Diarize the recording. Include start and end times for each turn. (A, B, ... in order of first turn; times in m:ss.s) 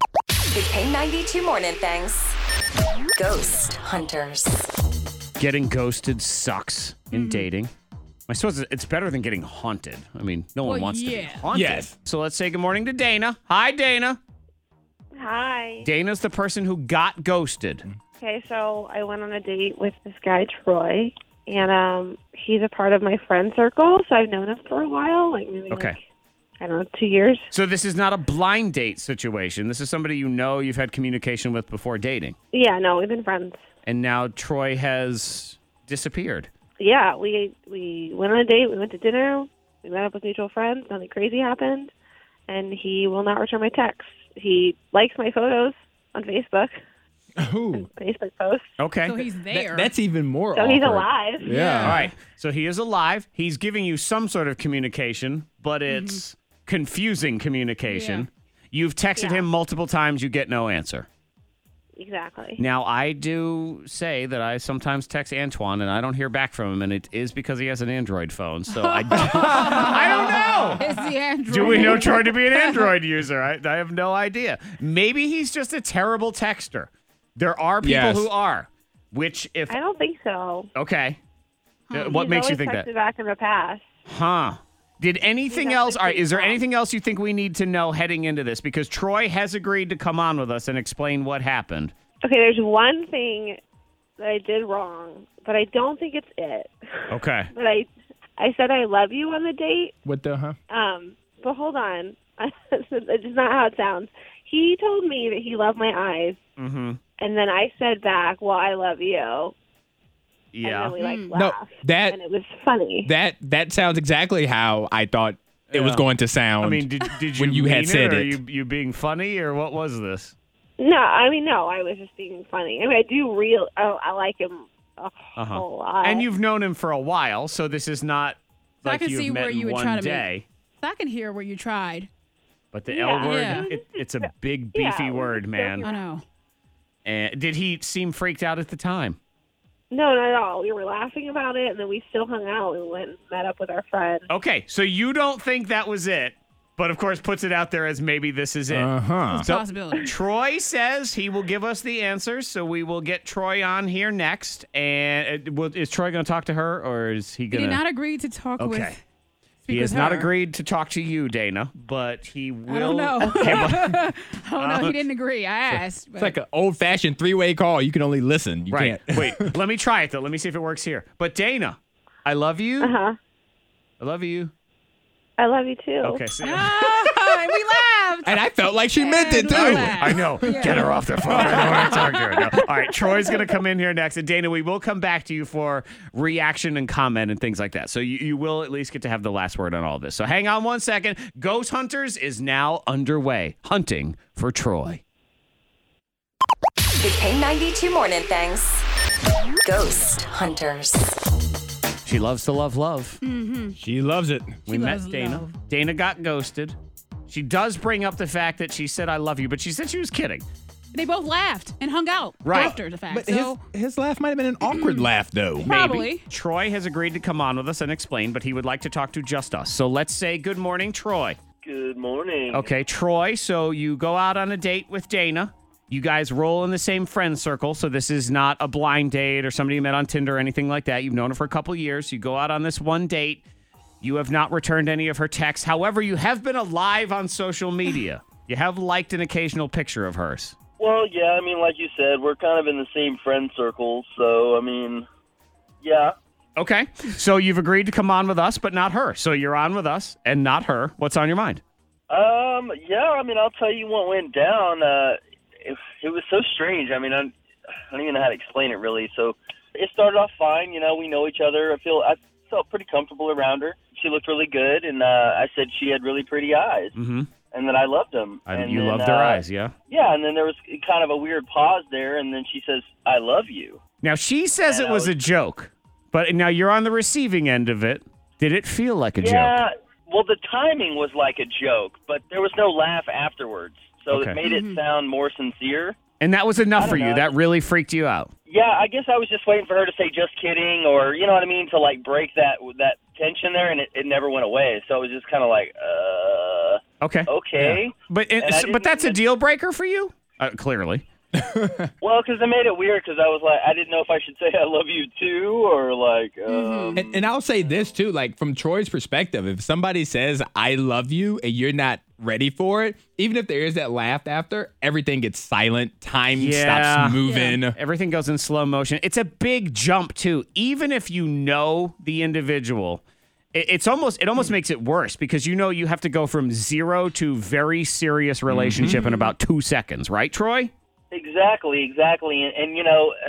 0:00.5-0:02.4 A
0:03.2-0:04.7 A
0:05.4-0:07.7 B
0:07.1-0:07.5 C
0:08.3-0:14.2 B
0:10.6-0:11.4 C
0:11.5-0:11.9 D
0:15.1-0:15.9 E
0:15.8-0:17.9 B
0:18.2-0:26.0 E
0:25.7-0:26.0 B
0:26.6-0:27.5 E
0:27.5-0:32.4 B
0:32.5-0:33.6 E
0:33.8-0:36.5 B
0:36.8-0:41.9 E
0:42.5-0:46.8 E
0:47.4-0:47.9 D
0:47.7-0:48.7 E
0:48.8-0:49.2 B
0:49.0-0:49.9 C
0:49.5-0:52.0 D
0:50.5-0:51.6 E
0:51.5-0:52.0 C
0:51.8-1:01.1 B
0:55.9-0:56.2 C
0:57.9-0:58.3 C
0:59.2-0:59.5 E
1:02.0-1:02.6 E
1:02.6-1:10.8 B
1:08.7-1:12.9 C
1:09.2-1:10.3 D
1:11.5-1:19.8 B
1:17.8-1:18.3 D
1:19.7-1:20.7 E
1:20.8-1:21.2 B
1:21.9-1:22.2 C
1:21.9-1:22.9 B
1:22.0-1:23.9 E
1:24.1-1:31.9 B
1:25.5-1:26.6 E
1:32.2-1:33.6 E
1:34.2-1:40.0 E
1:37.1-1:37.5 B
1:40.0-1:40.6 D
1:40.7-1:46.4 E
1:46.6-1:47.0 B
1:47.2-1:49.5 E
1:50.5-1:51.0 B
1:50.6-1:53.1 E
1:51.0-1:51.3 C
1:51.3-1:52.2 D
1:53.0-1:58.4 D
1:55.7-1:56.1 B
1:56.6-2:00.4 B
2:00.8-2:06.3 E
2:05.4-2:10.4 B
2:08.8-2:10.3 C
2:10.8-2:12.1 C
2:12.7-2:15.9 B
2:12.9-2:16.0 E
2:13.2-2:13.7 C
2:15.8-2:16.2 C
2:17.0-2:19.2 B
2:19.9-2:24.3 E
2:24.3-2:37.8 B
2:28.7-2:29.5 D
2:29.3-2:30.1 C
2:37.5-2:39.0 C
2:38.6-2:39.0 B
2:39.6-2:40.3 C
2:39.7-2:44.0 B
2:42.7-2:46.4 C
2:44.6-2:45.0 B
2:45.7-2:49.6 D
2:48.7-2:52.9 B
2:52.8-2:53.2 E
2:54.0-2:54.5 B
2:55.4-2:56.2 E
2:56.0-2:56.9 B
2:56.4-3:02.6 C
2:58.2-3:02.0 D
2:59.5-3:15.0 B
3:17.0-3:18.8 A
3:19.6-3:21.2 A
3:22.1-3:23.2 B
3:23.2-3:23.8 C
3:23.8-3:24.6 D
3:24.7-3:25.5 C
3:24.7-3:26.8 B
3:27.3-3:30.4 B
3:30.9-3:33.6 C
3:32.4-3:32.8 B
3:32.5-3:35.7 D
3:34.7-3:35.1 C
3:35.6-3:36.2 C
3:35.6-3:41.4 B
3:41.6-3:42.7 F
3:42.5-3:53.4 B
3:54.0-4:00.6 B
4:00.8-4:05.1 F
4:05.8-4:06.1 F
4:06.6-4:11.6 B
4:12.1-4:17.3 F
4:17.9-4:27.0 F
4:27.0-4:27.3 B
4:27.5-4:33.8 F
4:28.5-4:29.7 B
4:34.0-4:39.6 B
4:34.7-4:35.2 F
4:39.2-4:46.0 F
4:44.1-4:44.4 B
4:44.4-4:44.8 C
4:46.2-4:48.3 B
4:46.8-4:47.3 F
4:48.5-4:59.2 F
4:57.0-5:01.0 B
5:01.4-5:01.9 D
5:02.0-5:07.3 F
5:06.5-5:07.0 C
5:07.0-5:17.8 D
5:16.4-5:17.2 B
5:17.2-5:17.6 C
5:17.7-5:23.0 B
5:23.5-5:30.7 B
5:28.5-5:29.0 D
5:28.8-5:29.3 C
5:31.1-5:33.2 F